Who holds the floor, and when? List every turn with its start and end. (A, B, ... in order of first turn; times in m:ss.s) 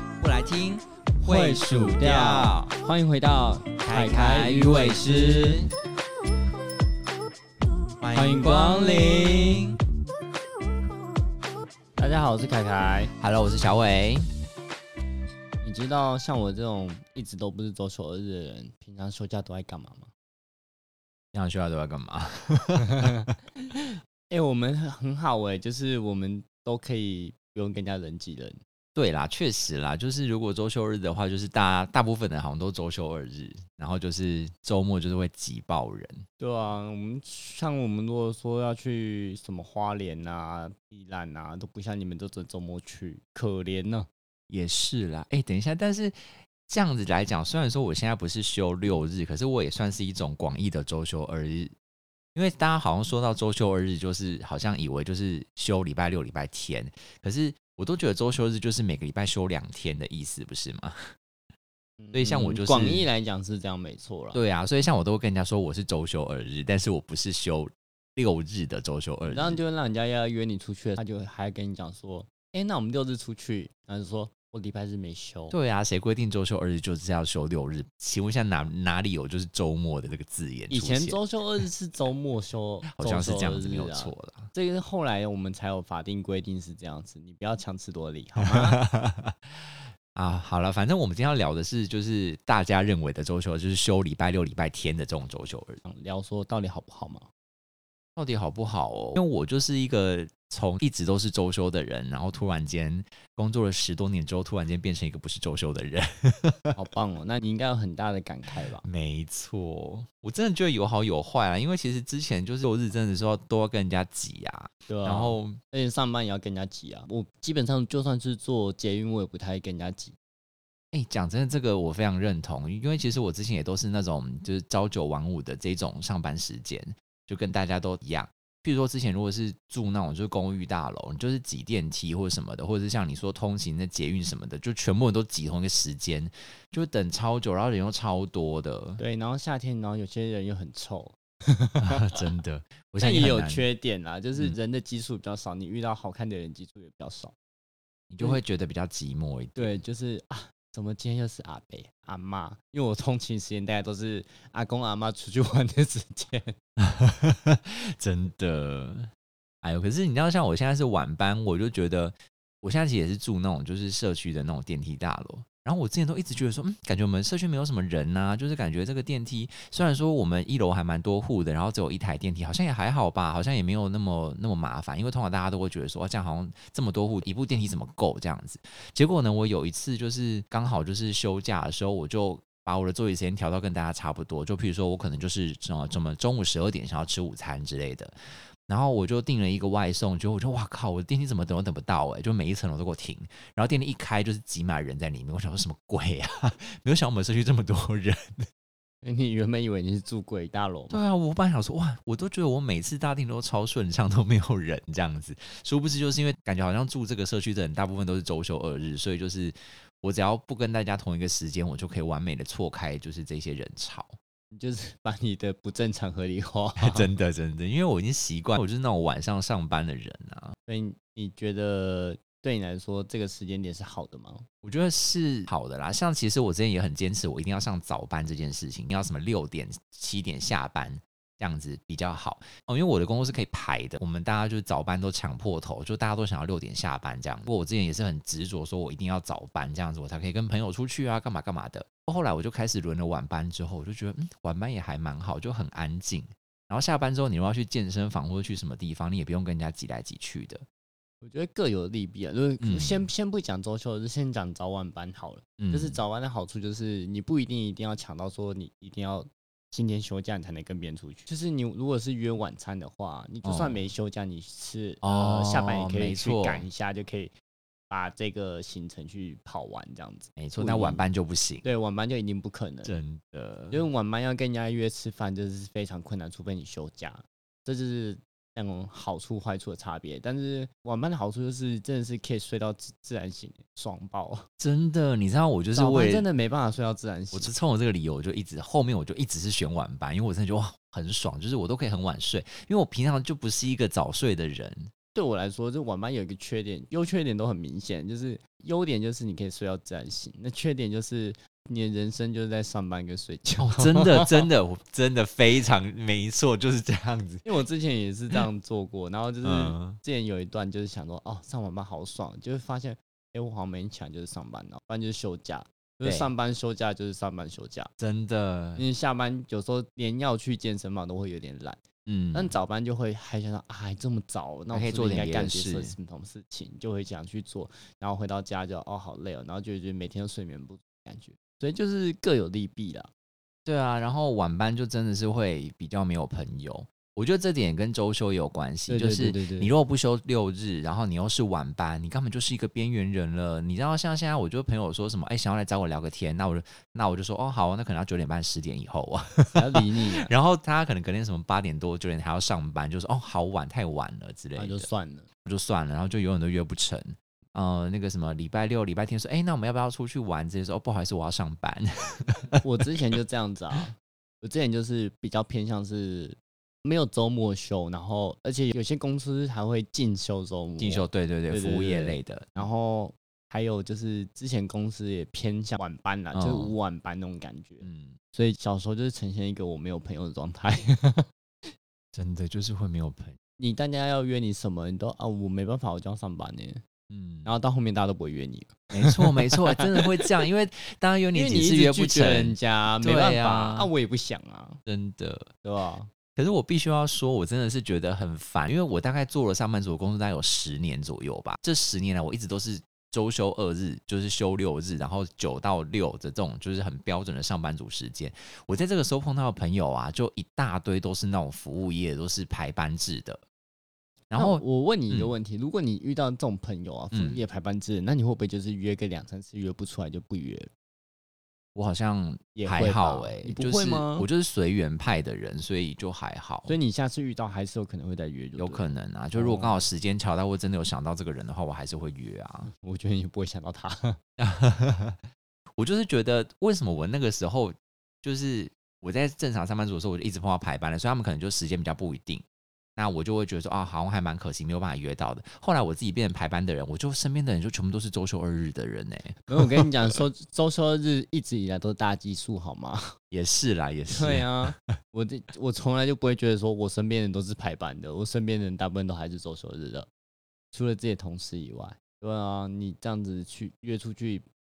0:00.2-0:02.8 A
0:01.2-0:05.6 B
0:03.8-0:05.7 A
0:08.0-0:09.8 A
0:08.1-0:09.6 B
0:12.0-0:13.1 B
0:13.2-0:14.3 A
0:15.6-0:20.1 B
0:21.3-0:23.3 A
0:22.8-0:23.3 B
0:24.3-0:28.6 B
0:29.0-0:36.2 A
0:36.4-0:44.1 B
0:44.5-0:51.7 A
0:52.4-1:01.1 A
1:02.0-1:04.4 B
1:02.1-1:03.1 A
1:04.3-1:09.6 A
1:09.3-1:15.6 B
1:15.5-1:21.2 A
1:20.7-1:28.8 B
1:22.9-1:24.5 A
1:28.5-1:35.8 A
1:35.8-1:37.3 B
1:38.2-1:46.8 A
1:46.8-1:48.9 B
1:48.8-1:55.6 A
1:54.9-2:00.2 B
2:00.9-2:19.0 A
2:19.0-2:22.2 B
2:21.8-2:23.7 A
2:23.0-2:27.3 B
2:28.1-2:29.8 A
2:29.6-2:36.5 B
2:36.8-2:39.1 A
2:39.6-3:08.1 A
3:08.7-3:18.5 A
3:19.0-3:21.0 B
3:20.9-3:34.2 A
3:34.5-3:37.1 B
3:36.8-3:40.6 A
3:40.7-3:44.5 B
3:44.6-4:10.6 A
4:11.2-4:27.3 B
4:12.6-4:13.1 A
4:15.6-4:16.0 A
4:23.4-4:23.8 A
4:25.0-4:26.7 A
4:27.9-4:31.0 B
4:30.4-4:31.7 A
4:31.6-4:33.0 B
4:32.8-4:33.8 A
4:33.7-4:44.4 B
4:44.6-4:46.2 A
4:45.8-4:47.5 B
4:47.3-4:54.9 A
4:55.1-5:04.4 B
5:03.6-5:07.5 A
5:07.4-5:17.9 B
5:09.4-5:10.0 A
5:16.0-5:16.3 A
5:18.0-5:18.8 A
5:18.8-5:21.8 B
5:22.1-5:22.5 A
5:22.3-5:33.1 B
5:24.7-5:26.0 A
5:33.7-5:54.9 A
5:38.9-5:39.7 B
5:49.6-5:50.3 B
5:54.6-5:55.3 B
5:55.4-6:02.6 A
6:02.6-6:21.3 B
6:10.8-6:12.6 A
6:16.3-6:16.7 A
6:17.8-6:18.2 A
6:22.1-6:23.4 A
6:23.6-6:26.8 B
6:27.1-6:27.5 A
6:27.4-6:30.0 B
6:28.9-6:33.9 A
6:31.3-6:34.8 B
6:34.9-6:35.5 A
6:35.6-6:36.1 B
6:36.4-6:53.4 A
6:54.3-6:55.3 A
6:54.4-7:00.7 B
6:57.1-6:57.4 A
7:01.8-7:06.8 A
7:02.6-7:04.3 B
7:06.7-7:09.9 B
7:08.6-7:12.7 A
7:12.7-7:14.2 B
7:14.4-7:15.2 A
7:15.8-7:22.4 A
7:23.0-7:29.9 A
7:29.5-7:33.1 B
7:33.3-7:34.7 A
7:34.1-7:40.1 B
7:40.7-7:44.4 B